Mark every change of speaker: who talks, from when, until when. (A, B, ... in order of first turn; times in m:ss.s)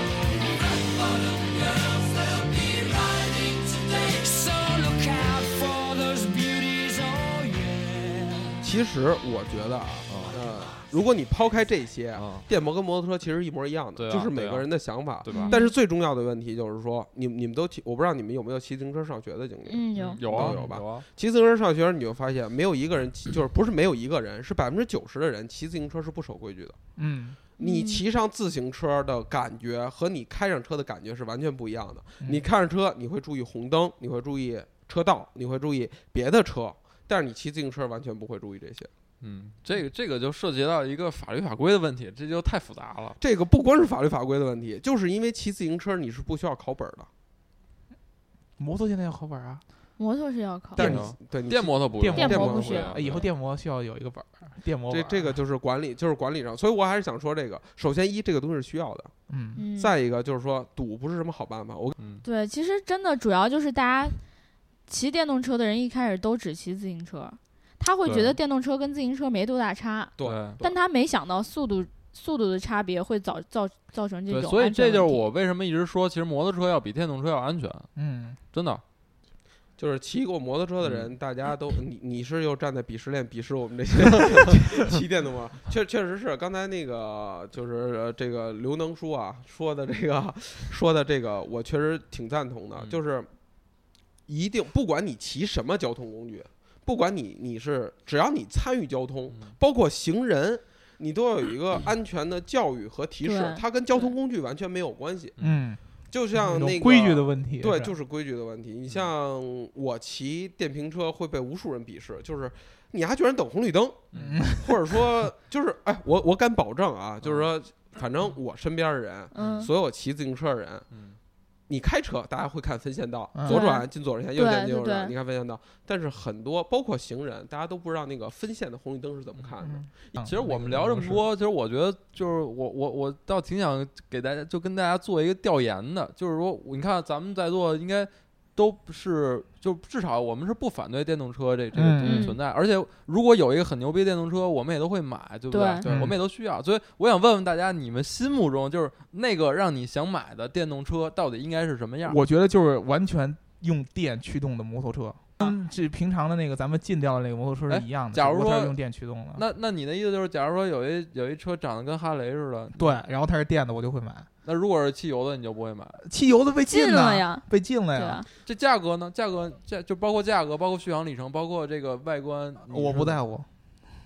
0:00.4-0:08.6 A
0:08.6-0:26.8 B
0:10.1-0:10.4 C
0:12.1-0:12.5 C
0:14.0-0:15.6 C
0:15.3-0:15.7 D
0:19.6-0:20.6 D
0:20.0-0:21.0 C
0:27.0-0:27.4 E
0:27.6-0:38.9 B
0:27.6-0:28.0 D
0:39.2-0:43.2 C
0:43.2-0:47.1 B
0:48.6-0:49.6 E
0:50.0-0:51.0 D
0:50.8-0:53.0 B
0:50.8-0:53.3 C
0:52.0-0:55.4 E
0:52.1-0:52.9 D
0:54.9-0:59.1 B
0:59.3-0:59.6 E
0:59.6-0:59.9 D
0:59.7-1:01.9 B
1:02.0-1:02.2 C
1:02.2-1:04.2 D
1:04.9-1:15.2 D
1:08.0-1:08.4 C
1:10.2-1:10.7 B
1:10.2-1:10.6 C
1:14.3-1:17.9 C
1:18.0-1:18.4 E
1:18.5-1:18.8 C
1:19.8-1:33.3 B
1:20.8-1:21.1 C
1:34.3-1:45.4 B
1:43.2-1:44.1 D
1:45.4-1:45.8 E
1:46.1-2:00.9 B
1:46.3-1:47.9 E
1:54.1-1:54.4 C
1:54.1-1:54.8 E
1:57.2-1:57.5 C
1:59.3-1:59.7 D
1:59.4-1:59.7 C
2:00.9-2:01.2 C
2:01.7-2:10.0 B
2:03.3-2:03.6 E
2:03.4-2:05.1 D
2:09.6-2:11.2 E
2:10.2-2:32.2 C
2:21.7-2:22.3 E
2:22.0-2:22.4 D
2:25.5-2:25.8 D
2:25.8-2:26.2 E
2:32.0-2:39.4 E
2:37.7-2:38.8 C
2:39.3-2:43.0 C
2:42.8-2:44.3 E
2:44.4-2:46.0 C
2:46.0-2:48.2 E
2:46.7-2:48.3 D
2:48.4-2:53.2 C
2:52.7-2:53.5 E